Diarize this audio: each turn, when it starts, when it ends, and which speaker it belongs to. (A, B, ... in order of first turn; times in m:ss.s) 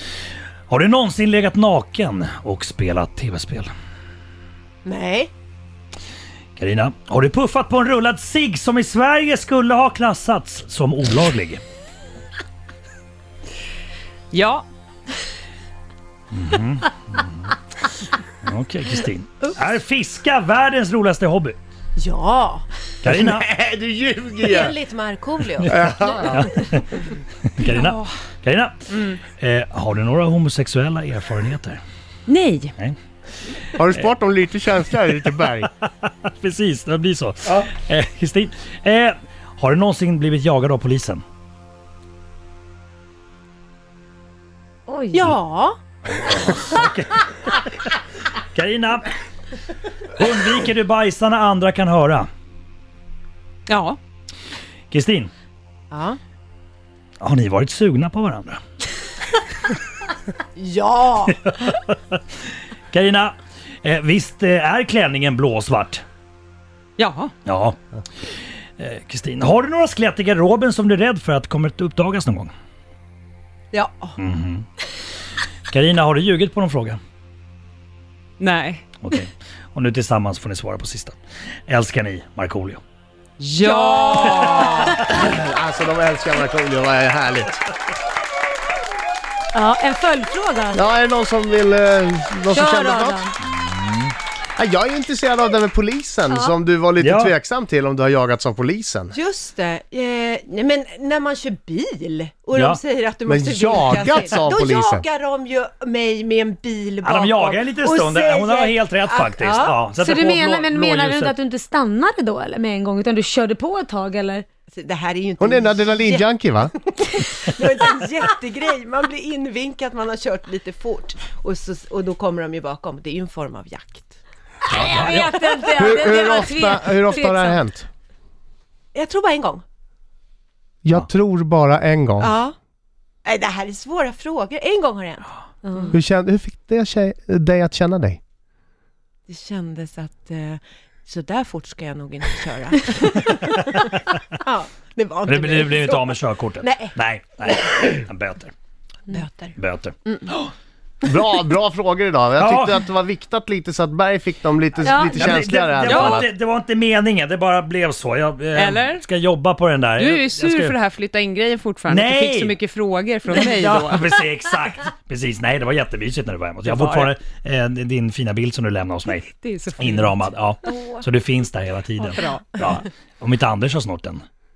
0:00.7-0:03.7 A
0:04.8-0:05.3 B
0:06.6-0:11.6 A
0:14.3-0:14.7 C
0:16.3-0:17.5 A
0:18.4-0:21.6 A
0:22.0-0:22.7 B
0:23.0-0:23.5 A
0:23.0-0:24.7 D
0:24.4-0:25.7 B
0:25.6-0:26.6 D
0:26.3-0:31.8 A
0:27.6-0:28.2 C
0:28.9-0:29.2 C
0:32.3-0:32.8 C
0:33.8-0:35.7 D
0:35.1-0:41.2 A
0:44.9-0:45.4 E
0:45.1-0:45.8 B
0:46.0-0:48.0 A
0:48.5-0:49.1 A
0:50.2-0:52.3 A
0:53.7-0:54.0 C
0:54.9-0:55.3 A
0:55.9-0:56.2 B
0:57.2-0:58.6 A
1:00.6-1:01.4 B
1:01.2-1:02.2 A
1:02.9-1:06.0 A
1:07.0-1:07.3 C
1:07.4-1:07.8 A
1:08.8-1:12.5 A
1:13.7-1:14.2 B
1:14.2-1:14.7 A
1:15.7-1:17.0 A
1:18.4-1:18.9 C
1:19.0-1:21.2 A
1:21.7-1:22.8 A
1:23.4-1:25.0 C
1:24.0-1:24.9 A
1:24.9-1:27.7 D
1:29.5-1:30.8 E
1:30.7-1:33.2 D
1:32.5-1:33.4 E
1:33.4-1:34.2 A
1:34.6-1:39.2 D
1:36.3-1:36.5 E
1:37.0-1:37.3 A
1:39.1-1:49.8 B
1:42.5-1:42.8 A
1:43.3-1:45.0 D
1:47.0-1:51.4 A
1:49.6-1:54.5 E
1:54.7-2:04.2 B
1:55.4-1:56.7 D
2:04.7-2:05.4 A
2:04.8-2:07.6 E
2:05.0-2:06.4 B
2:05.7-2:07.9 D
2:08.9-2:09.6 B
2:10.8-2:12.3 D
2:12.2-2:12.6 B
2:13.2-2:15.3 B
2:15.6-2:16.0 E
2:15.9-2:18.2 D
2:19.3-2:23.9 B
2:23.0-2:24.2 A
2:24.4-2:27.0 B
2:25.3-2:28.5 A
2:29.1-2:30.3 B
2:29.6-2:30.5 A
2:31.0-2:36.3 D
2:32.4-2:32.8 A
2:34.8-2:35.2 E
2:34.8-2:40.8 A
2:35.8-2:36.3 C
2:38.6-2:39.1 C
2:40.0-2:44.1 C
2:41.9-2:42.6 A
2:43.3-2:54.2 A
2:46.6-2:47.2 C
2:49.1-2:50.9 C
2:52.0-2:52.9 C